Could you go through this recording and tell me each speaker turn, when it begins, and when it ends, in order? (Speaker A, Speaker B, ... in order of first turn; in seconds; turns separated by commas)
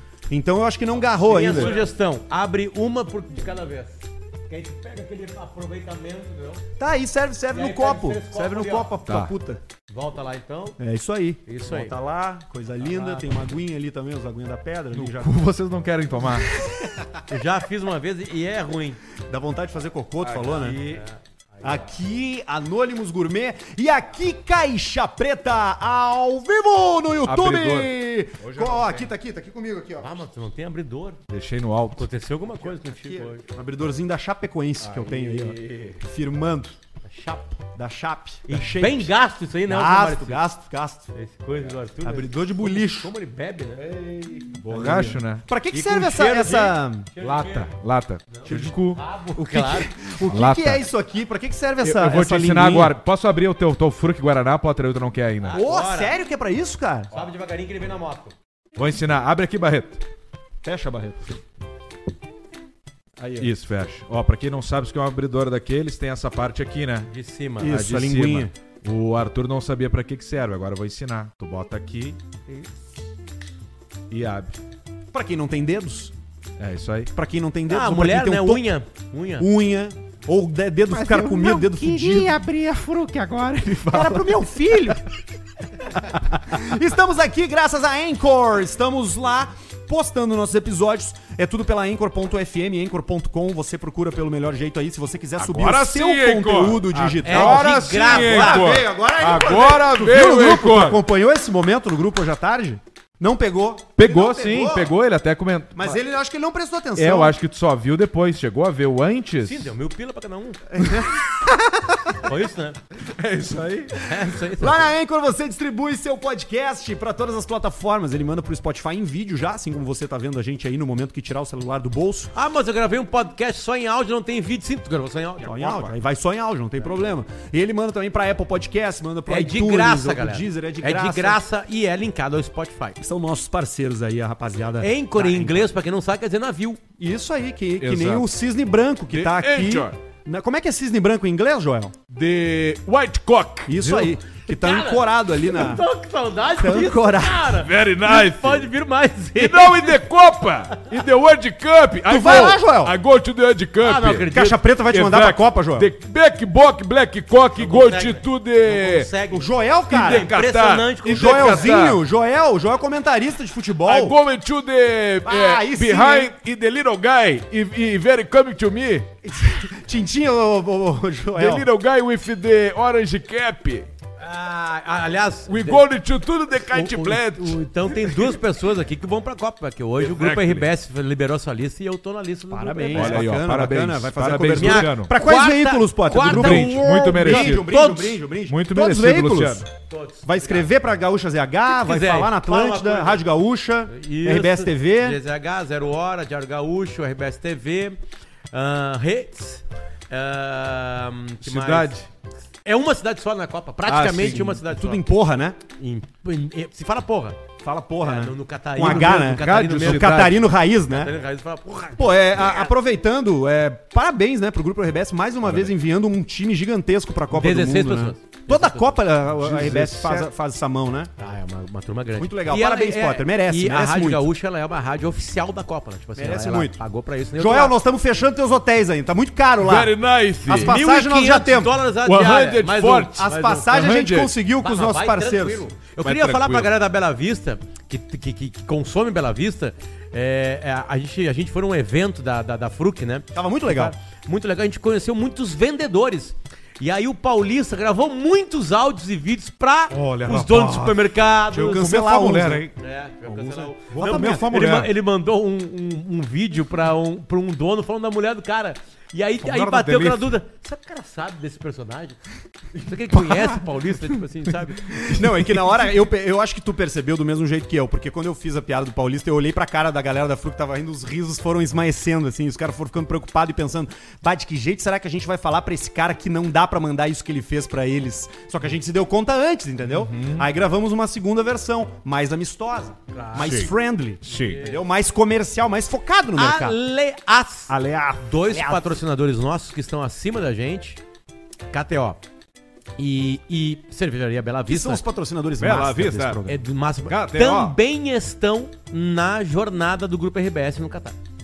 Speaker A: 0.3-1.8, Speaker B: 1.1-6.6, Speaker A: 6.8-9.6, Speaker B: 7.5-8.9, Speaker C: 9.0-9.3, Speaker B: 9.9-10.8, Speaker A: 10.8-15.3, Speaker B: 11.4-11.9, Speaker B: 12.8-13.4, Speaker C: 14.9-16.5, Speaker A: 16.5-16.9, Speaker B: 17.3-19.0, Speaker A: 19.3-20.8, Speaker C: 20.2-21.0, Speaker B: 20.6-22.0, Speaker A: 21.6-30.1, Speaker C: 27.2-29.1, Speaker B: 30.0-31.2, Speaker C: 31.3-32.1, Speaker B: 31.9-33.4, Speaker A: 32.7-36.7, Speaker C: 34.8-36.0, Speaker B: 37.1-37.6, Speaker A: 37.7-39.1, Speaker B: 38.5-40.4, Speaker A: 39.7-41.1, Speaker B: 41.1-43.9, Speaker A: 42.0-43.1, Speaker C: 43.8-45.5, Speaker A: 44.7-47.1, Speaker B: 45.7-47.7, Speaker C: 47.2-49.0, Speaker B: 48.3-49.9, Speaker A: 49.4-52.9, Speaker C: 50.2-50.8, Speaker C: 51.8-55.6, Speaker B: 55.4-56.1, Speaker A: 55.5-57.1, Speaker B: 57.1-58.3, Speaker C: 58.8-60.0, Speaker A: 60.6-61.4, Speaker A: 63.2-63.5, Speaker C: 63.4-67.1, Speaker B: 67.1-67.7, Speaker A: 67.6-68.5, Speaker C: 67.6-72.2, Speaker C: 74.1-74.6, Speaker A: 75.1-76.1, Speaker C: 76.6-77.1, Speaker A: 77.1-78.7, Speaker B: 77.7-79.5, Speaker A: 79.4-82.4, Speaker C: 80.9-85.0, Speaker A: 83.8-85.0, Speaker A: 85.9-104.9, Speaker C: 95.4-101.0, Speaker B: 97.2-98.8, Speaker C: 104.0-106.0, Speaker A: 105.8-107.3, Speaker C: 107.0-109.7, Speaker B: 109.4-110.6, Speaker A: 110.7-112.2, Speaker B: 112.2-112.8, Speaker C: 113.0-114.0, Speaker B: 114.0-114.9, Speaker A: 114.6-122.3, Speaker B: 122.3-126.0, Speaker A: 125.4-131.4, Speaker B: 129.3-133.0, Speaker A: 133.0-135.7, Speaker B: 134.8-136.8, Speaker A: 137.0-142.0, Speaker C: 137.8-138.3, Speaker C: 139.1-140.0, Speaker C: 142.1-144.1, Speaker A: 143.7-145.8, Speaker B: 144.4-150.0, Speaker A: 146.6-147.5, Speaker C: 147.5-148.7, Speaker C: 149.3-154.4, Speaker A: 152.1-152.9, Speaker B: 153.8-154.6, Speaker A: 154.3-155.9, Speaker C: 154.9-159.1, Speaker B: 157.6-161.7, Speaker A: 159.3-160.3, Speaker C: 159.9-162.0, Speaker A: 161.1-164.2, Speaker C: 163.8-169.1, Speaker A: 165.2-166.3, Speaker A: 169.2-171.7, Speaker C: 171.3-173.9, Speaker B: 174.2-175.8, Speaker C: 175.5-178.4, Speaker B: 176.7-183.2, Speaker C: 180.0-180.7, Speaker A: 182.5-189.7, Speaker C: 182.9-185.1, Speaker B: 184.6-188.2, Speaker C: 186.2-187.7, Speaker C: 188.5-189.6, Speaker B: 189.9-190.7, Speaker A: 190.2-195.2, Speaker B: 191.7-193.2, Speaker B: 193.9-198.0, Speaker B: 198.5-201.9, Speaker C: 201.4-202.1, Speaker B: 202.6-205.1, Speaker C: 203.8-204.6, Speaker A: 204.2-205.6, Speaker B: 205.8-207.4, Speaker A: 207.6-211.1, Speaker B: 208.0-212.7, Speaker C: 208.8-210.5, Speaker A: 212.0-221.1, Speaker C: 215.4-215.7, Speaker B: 217.3-219.0, Speaker C: 219.2-220.3, Speaker B: 221.2-227.7, Speaker A: 222.2-224.2, Speaker A: 226.2-226.8, Speaker A: 227.3-229.9, Speaker C: 229.6-230.8, Speaker A: 230.4-231.7, Speaker B: 230.5-233.8, Speaker C: 232.0-234.3, Speaker A: 233.1-235.6, Speaker B: 234.6-251.9, Speaker C: 236.0-236.7, Speaker A: 243.3-243.9, Speaker C: 249.9-252.8, Speaker A: 251.6-252.6, Speaker B: 252.8-262.2, Speaker C: 253.3-254.9, Speaker A: 253.9-254.4, Speaker C: 259.4-260.3, Speaker B: 262.7-264.9, Speaker C: 263.1-263.5, Speaker A: 264.9-286.8, Speaker C: 265.1-265.7, Speaker C: 279.8-280.5, Speaker B: 283.1-283.7, Speaker C: 283.4-283.7, Speaker C: 284.2-284.6, Speaker B: 284.3-284.8, Speaker B: 286.4-291.0, Speaker A: 287.7-289.0, Speaker B: 291.7-292.2, Speaker B: 293.0-295.0, Speaker A: 294.7-296.5, Speaker C: 295.6-296.5, Speaker B: 296.4-301.2, Speaker C: 297.1-297.8